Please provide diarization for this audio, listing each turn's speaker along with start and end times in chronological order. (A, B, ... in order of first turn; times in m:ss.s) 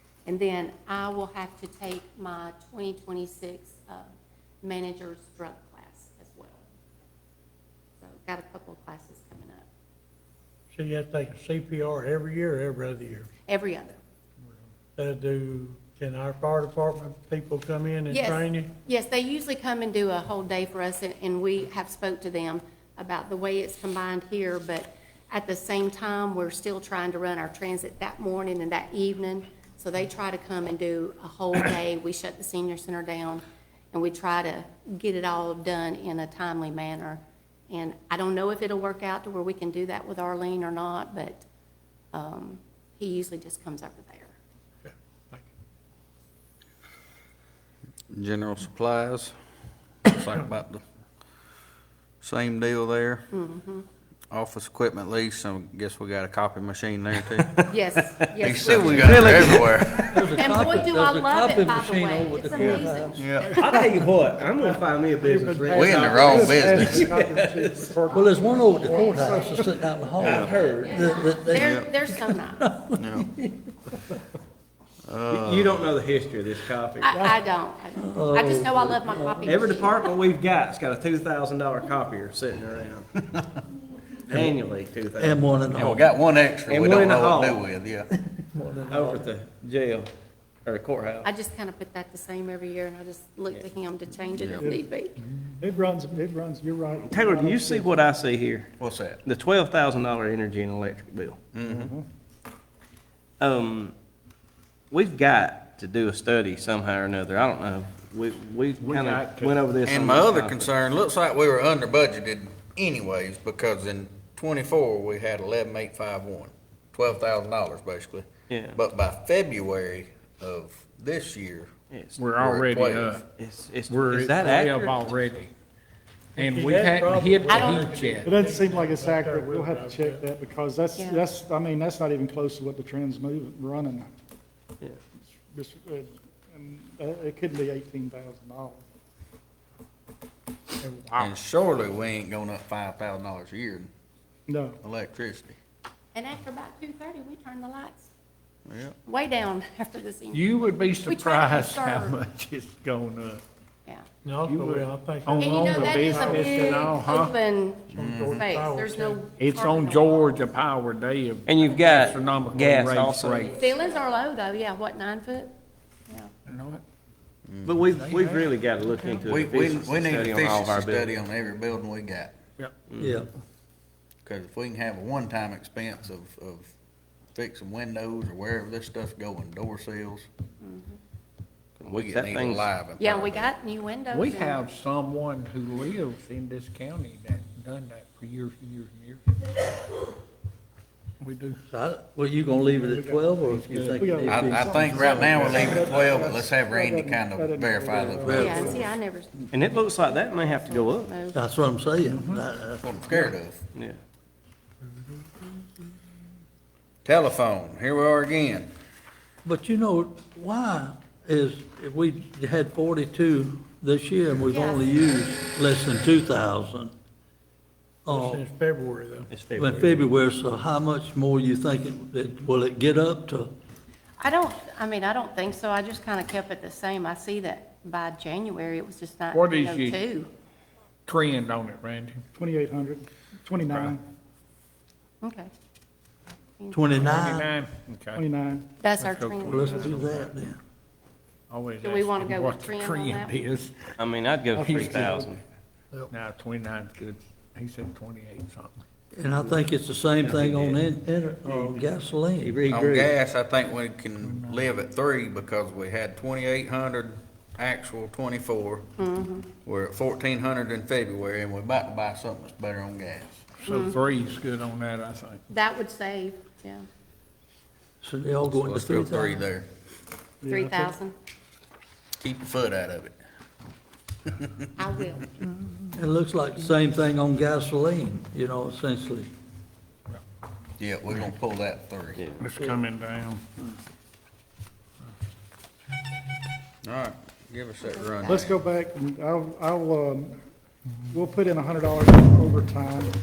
0:00.2-0:04.1 A
0:04.6-0:06.6 A
0:08.0-0:09.7 A
0:10.7-0:13.3 B
0:13.5-0:14.0 A
0:15.0-0:18.7 B
0:18.1-0:41.4 A
0:42.1-0:44.3 A
0:44.8-0:45.4 B
0:48.1-0:49.3 C
0:50.0-0:50.8 C
0:52.2-0:53.2 C
0:53.3-0:53.8 A
0:54.3-0:57.7 C
0:57.2-0:57.6 D
0:57.7-0:59.4 A
0:58.4-1:00.3 C
0:58.5-1:00.2 D
0:58.7-1:03.3 E
1:00.3-1:03.6 A
1:02.6-1:03.5 C
1:03.5-1:07.9 D
1:05.2-1:09.6 F
1:05.6-1:07.2 C
1:08.1-1:13.7 E
1:09.1-1:09.5 A
1:10.2-1:11.2 D
1:10.5-1:12.6 A
1:11.5-1:11.9 C
1:13.0-1:13.3 C
1:15.0-1:15.9 C
1:15.3-1:17.2 D
1:17.0-1:20.1 A
1:17.9-1:19.6 E
1:19.4-1:23.1 D
1:24.2-1:25.5 D
1:25.2-1:26.1 E
1:25.7-1:28.1 C
1:26.7-1:27.6 D
1:28.3-1:29.3 E
1:28.9-1:30.1 D
1:30.6-1:31.3 D
1:31.2-1:35.2 A
1:34.4-1:34.7 C
1:35.6-1:37.9 F
1:37.1-1:38.7 D
1:38.8-1:39.2 C
1:39.2-1:41.4 D
1:41.5-1:41.9 C
1:41.7-1:42.0 F
1:43.4-1:43.9 D
1:44.9-1:50.7 D
1:48.8-1:49.7 G
1:49.8-2:01.7 C
1:58.5-1:58.8 D
2:01.9-2:02.2 D
2:02.2-2:03.2 G
2:02.3-2:03.2 C
2:03.4-2:05.0 D
2:03.9-2:05.5 G
2:06.4-2:08.3 G
2:06.4-2:10.2 B
2:07.5-2:07.9 A
2:08.2-2:14.0 F
2:11.0-2:11.3 A
2:15.5-2:18.8 F
2:20.8-2:21.3 G
2:21.2-2:23.9 C
2:24.5-2:24.8 F
2:24.8-2:25.6 C
2:26.1-2:28.1 A
2:28.7-2:28.9 C
2:29.0-2:32.2 A
2:30.3-2:33.4 G
2:34.2-2:36.9 B
2:34.4-2:37.3 G
2:35.4-2:40.4 A
2:37.9-2:39.3 B
2:37.9-2:38.5 C
2:39.4-2:43.5 G
2:41.4-2:43.5 D
2:43.6-2:45.5 A
2:46.5-2:46.8 G
2:47.5-2:47.8 C
2:47.6-2:51.1 D
2:47.9-2:49.3 G
2:49.2-2:52.3 C
2:52.9-2:53.1 D
2:53.0-2:53.3 E
2:54.2-2:56.7 C
2:57.3-3:00.3 C
3:00.6-3:01.0 A
3:01.8-3:02.7 D
3:01.8-3:03.5 C
3:03.0-3:04.7 A
3:04.1-3:09.3 G
3:11.2-3:11.6 G
3:11.7-3:15.3 E
3:12.8-3:13.2 F
3:13.5-3:14.0 G
3:14.0-3:18.7 F
3:14.3-3:18.9 C
3:14.8-3:16.0 G
3:18.1-3:18.8 E
3:18.3-3:21.4 A
3:19.5-3:21.1 D
3:21.3-3:23.3 E
3:22.8-3:23.6 C
3:27.0-3:28.7 C
3:29.4-3:36.9 E
3:34.5-3:35.0 A
3:38.0-3:38.4 E
3:38.1-3:39.3 B
3:39.3-3:40.1 D
3:39.6-3:43.5 E
3:44.2-3:50.3 A
3:49.3-3:50.0 G
3:51.1-3:52.2 G
3:52.4-3:54.0 F
3:53.6-3:54.0 G
3:55.2-3:55.5 A
3:56.6-3:57.1 A
3:56.7-3:57.5 E
3:57.0-3:58.3 G
3:58.2-3:58.7 F
3:58.8-4:00.0 A
3:58.9-4:00.2 G
3:59.4-4:00.6 E
4:01.5-4:03.9 G
4:01.8-4:03.5 A
4:04.0-4:05.4 D
4:04.6-4:05.3 G
4:04.7-4:05.2 F
4:06.1-4:08.8 G
4:09.1-4:12.6 E
4:10.2-4:10.8 D
4:12.4-4:13.1 D
4:12.7-4:18.9 C
4:14.2-4:14.7 G
4:19.0-4:19.5 A
4:19.6-4:23.5 C
4:23.6-4:25.4 G
4:23.6-4:24.0 A
4:25.5-4:26.8 A
4:28.0-4:29.4 E
4:28.4-4:29.7 C
4:30.4-4:30.9 F
4:30.4-4:31.1 A
4:32.2-4:33.2 C
4:34.3-4:34.7 C
4:34.8-4:35.3 A
4:36.0-4:39.3 E
4:40.8-4:42.2 C
4:42.4-4:43.5 G
4:46.8-4:48.6 C
4:47.8-4:48.5 A
4:48.3-4:50.4 F
4:51.1-4:53.1 F